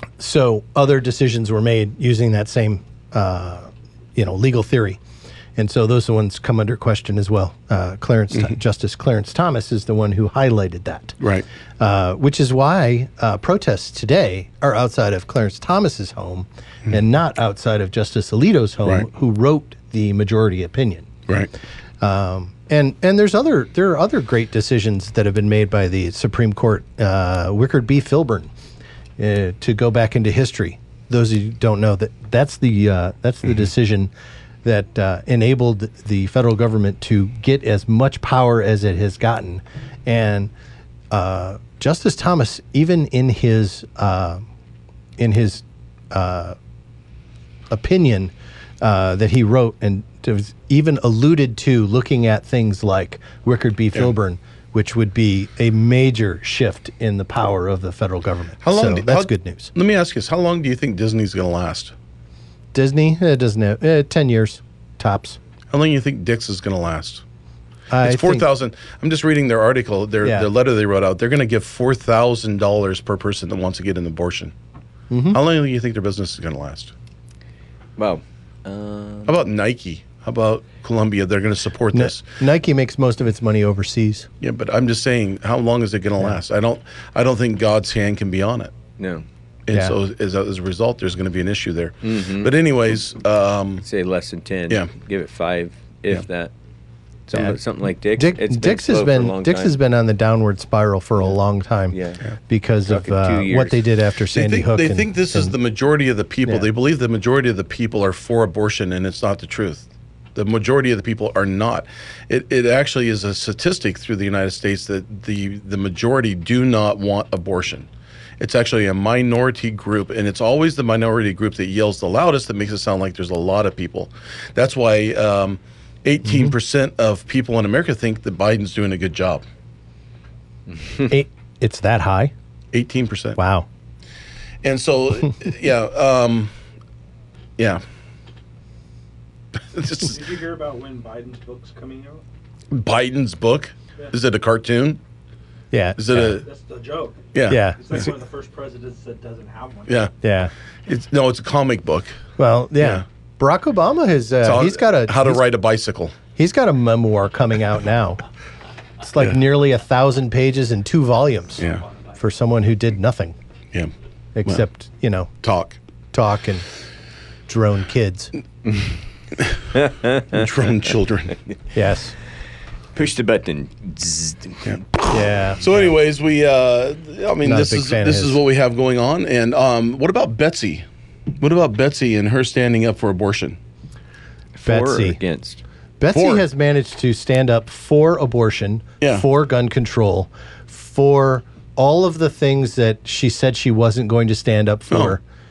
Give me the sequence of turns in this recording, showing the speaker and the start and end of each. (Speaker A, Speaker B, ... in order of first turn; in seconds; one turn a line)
Speaker A: 0.2-5.0
Speaker A: 5.6-11.2
Speaker B: 11.2-11.5
Speaker A: 11.8-21.1
Speaker A: 22.0-28.5
Speaker A: 29.2-34.1
Speaker A: 34.6-40.5
Speaker A: 41.1-44.5
Speaker A: 45.2-46.6
Speaker A: 47.7-59.7
Speaker B: 58.6-61.9
Speaker A: 62.7-65.4
Speaker B: 65.7-67.2
Speaker A: 67.9-68.5
Speaker B: 68.0-74.5
Speaker A: 70.2-70.5
Speaker A: 75.1-75.4
Speaker B: 75.3-76.9
Speaker C: 78.0-79.4
Speaker B: 79.3-82.2
Speaker A: 81.9-84.3
Speaker B: 84.4-88.7
Speaker C: 89.0-89.2
Speaker B: 89.7-93.8
Speaker C: 92.0-92.5
Speaker C: 93.8-96.5
Speaker C: 97.3-99.7
Speaker A: 98.2-102.0
Speaker C: 101.9-102.2
Speaker A: 102.5-105.5
Speaker C: 102.9-103.8
Speaker B: 104.3-117.9
Speaker B: 118.4-129.4
Speaker A: 126.2-126.5
Speaker A: 131.1-132.3
Speaker B: 132.7-133.4
Speaker A: 133.4-133.7
Speaker B: 134.6-136.5
Speaker B: 139.8-140.1
Speaker D: 140.0-142.2
Speaker B: 142.7-145.0
Speaker A: 145.7-146.4
Speaker B: 146.0-146.4
Speaker D: 146.4-150.1
Speaker B: 147.3-148.0
Speaker A: 147.5-148.1
Speaker B: 149.9-150.1
Speaker A: 150.2-150.5
Speaker B: 150.9-152.2
Speaker A: 152.4-155.5
Speaker B: 152.8-153.1
Speaker B: 154.4-156.2
Speaker A: 156.4-158.2
Speaker A: 159.0-163.3
Speaker B: 161.6-161.8
Speaker A: 164.3-165.3
Speaker B: 165.4-165.8
Speaker A: 166.1-166.7
Speaker A: 167.5-168.3
Speaker C: 168.7-168.9
Speaker C: 169.7-170.4
Speaker B: 170.3-171.4
Speaker A: 171.7-172.1
Speaker C: 172.9-174.7
Speaker B: 174.7-175.0
Speaker A: 175.1-175.8
Speaker B: 175.6-180.9
Speaker A: 177.4-178.4
Speaker B: 181.4-183.6
Speaker C: 184.6-185.6
Speaker A: 184.7-185.2
Speaker A: 186.0-195.2
Speaker B: 186.1-186.4
Speaker B: 194.9-195.2